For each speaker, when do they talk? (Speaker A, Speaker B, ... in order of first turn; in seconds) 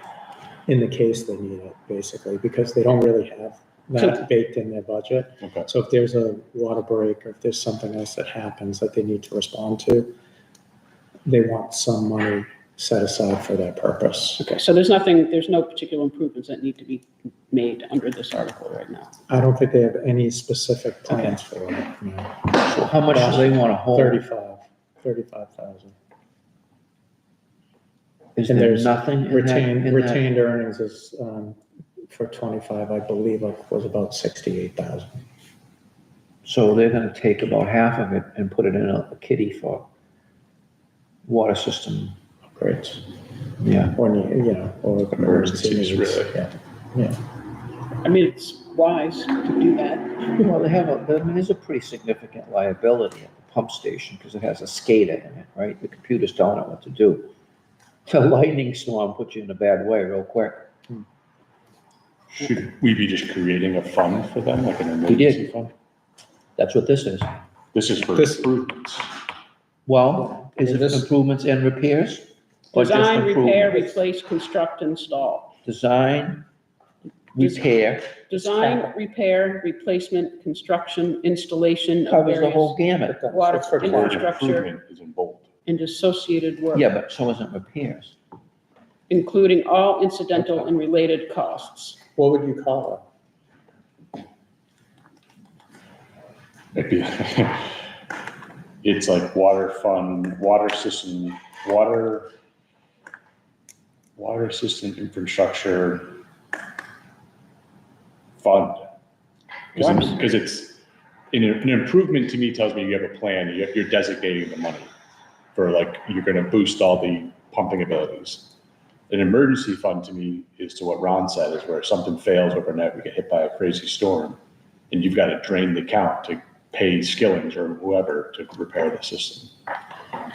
Speaker A: 0.7-10.1, 11.2-14.6, 19.3-25.9, 28.5-31.6, 32.1-35.2, 42.5-43.0, 43.9-47.2, 68.1-68.5, 70.2-71.1, 78.3-78.9, 83.1-84.3, 92.2-93.0
Speaker B: 5.4-5.7, 45.1-46.4, 62.3-65.6, 67.7-69.1, 83.8-85.5, 96.7-97.8, 98.8-102.3, 104.2-106.2, 108.4-109.0, 109.7-114.9, 115.5-118.5, 119.1-124.4, 124.9-129.5
Speaker C: 14.4-19.2, 48.0-50.5, 72.7-75.5, 77.4-82.8, 83.3-84.7, 85.7-86.9, 89.1-92.0, 109.8-110.2
Speaker D: 22.6-24.2, 28.4-30.2, 36.4-39.9, 41.2-42.2, 43.6-44.0, 50.3-57.3, 58.1-60.7, 65.1-65.7, 66.6-67.3, 69.8-73.9, 75.6-76.4, 77.3-78.2, 82.0-83.2, 86.7-88.1, 90.3-90.7